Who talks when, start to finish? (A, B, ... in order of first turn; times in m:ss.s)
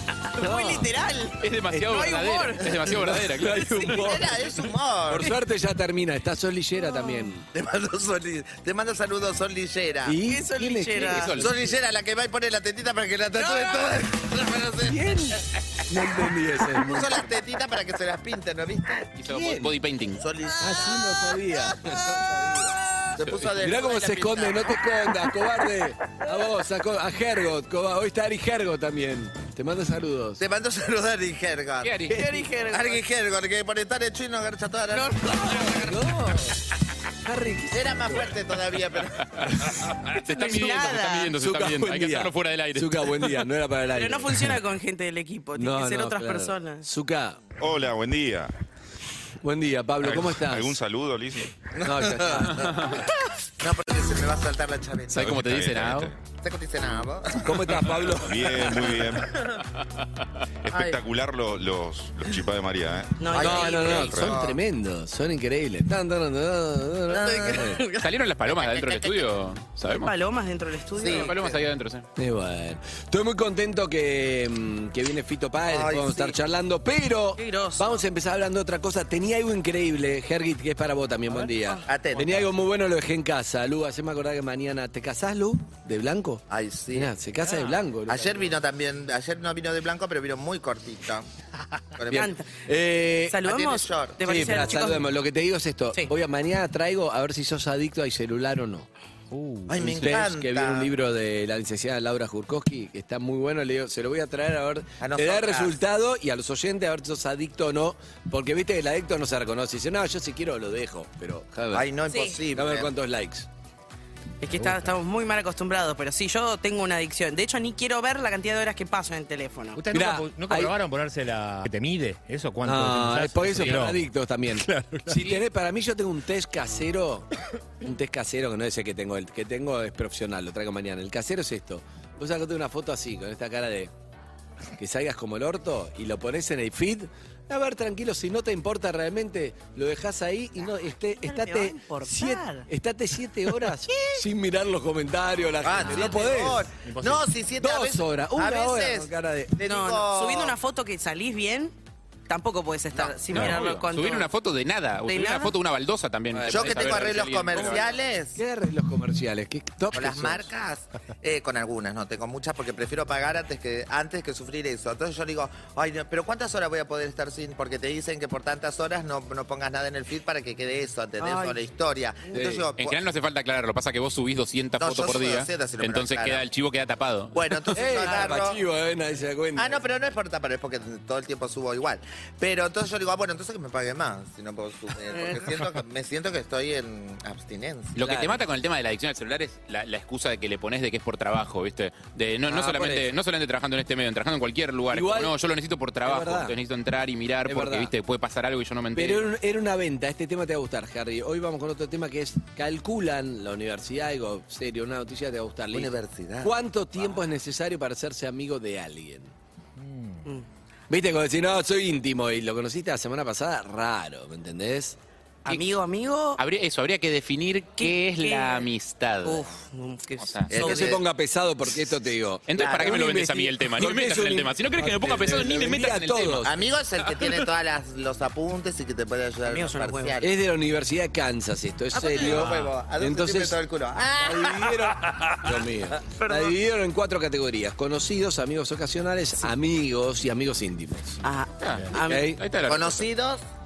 0:00.3-0:02.6 A
0:00.4-0:00.9 B
0:01.4-0:03.8 C
0:01.7-0:02.1 B
0:02.6-0:07.5 B
0:03.6-0:04.1 A
0:04.0-0:05.3 D
0:06.8-0:07.3 A
0:07.5-0:10.2 D
0:10.0-0:11.8 B
0:10.3-0:11.4 A
0:11.0-0:11.5 C
0:11.4-0:15.0 D
0:13.3-0:14.0 A
0:14.8-0:17.3 B
0:16.8-0:19.1 D
0:19.2-0:20.2 C
0:19.3-0:19.8 B
0:20.2-0:21.0 D
0:20.6-0:30.4 B
0:23.2-0:25.0 D
0:23.2-0:23.5 C
0:30.4-0:36.0 D
0:31.8-0:32.2 C
0:32.1-0:33.0 A
0:34.9-0:36.1 A
0:35.8-0:36.6 B
0:37.2-0:38.4 B
0:37.7-0:39.6 D
0:39.4-0:43.5 C
0:39.6-0:39.9 B
0:40.3-0:41.3 A
0:40.7-0:44.6 B
0:43.9-0:46.9 A
0:45.6-0:47.4 B
0:47.6-0:48.5 E
0:49.4-0:50.8 B
0:50.0-0:51.7 E
0:51.8-0:53.0 D
0:51.8-0:53.0 B
0:52.6-0:53.0 C
0:53.6-0:55.4 D
0:55.1-0:56.1 C
0:55.2-0:56.2 E
0:56.4-0:57.7 D
0:57.4-0:59.0 B
0:57.9-0:59.5 E
0:59.4-0:59.6 D
1:00.6-1:04.4 E
1:00.7-1:01.0 D
1:03.2-1:04.2 A
1:03.3-1:04.6 D
1:03.4-1:07.8 B
1:07.1-1:08.1 A
1:07.2-1:07.7 D
1:08.0-1:10.1 C
1:08.5-1:09.3 D
1:09.9-1:11.4 A
1:11.0-1:11.6 D
1:11.1-1:12.1 C
1:12.2-1:28.6 B
1:15.7-1:16.4 D
1:17.4-1:18.0 A
1:21.8-1:22.5 D
1:26.5-1:27.1 D
1:28.1-1:31.3 D
1:32.0-1:32.3 D
1:32.1-1:33.4 B
1:32.1-1:32.5 A
1:33.3-1:35.1 A
1:33.4-1:34.7 D
1:34.2-1:38.9 B
1:39.3-1:40.0 F
1:39.7-1:40.9 D
1:39.7-1:51.9 B
1:45.0-1:45.8 D
1:51.7-1:52.9 D
1:52.1-1:52.4 A
1:52.5-1:53.5 B
1:54.4-1:59.8 A
1:59.8-2:05.1 F
1:59.9-2:00.7 B
2:02.6-2:13.9 B
2:14.8-2:26.7 B
2:21.1-2:22.7 A
2:23.9-2:24.2 A
2:25.6-2:30.6 D
2:26.8-2:27.2 F
2:27.6-2:29.6 B
2:29.6-2:31.8 A
2:32.3-2:34.3 A
2:33.3-2:37.9 C
2:35.1-2:35.5 A
2:36.3-2:40.5 B
2:36.5-2:38.4 D
2:39.9-2:53.0 D
2:52.3-2:52.7 B
2:52.8-2:57.7 C
2:54.8-2:56.4 D
2:57.3-2:58.6 D
2:57.7-2:59.8 B
2:59.6-3:08.0 D
3:08.0-3:19.3 C
3:08.0-3:08.4 B
3:12.5-3:13.2 B
3:14.9-3:15.4 B
3:16.0-3:16.6 B
3:17.4-3:17.9 B
3:18.9-3:29.3 B
3:25.7-3:26.5 D
3:29.8-3:30.2 F
3:30.9-3:35.0 B
3:35.4-3:36.4 A
3:36.4-3:39.5 C
3:37.8-3:38.6 A
3:39.2-3:41.0 A
3:40.2-3:40.5 C
3:40.5-3:41.0 D
3:40.5-3:46.5 B
3:42.5-3:47.4 C
3:42.6-3:43.0 D
3:46.4-3:50.3 D
3:49.5-3:50.2 A
3:50.2-3:53.6 B
3:51.9-3:54.9 D
3:54.2-4:01.2 B
3:56.1-3:56.5 A
4:01.2-4:02.4 A
4:01.6-4:03.1 C
4:01.9-4:02.4 B
4:02.7-4:03.4 D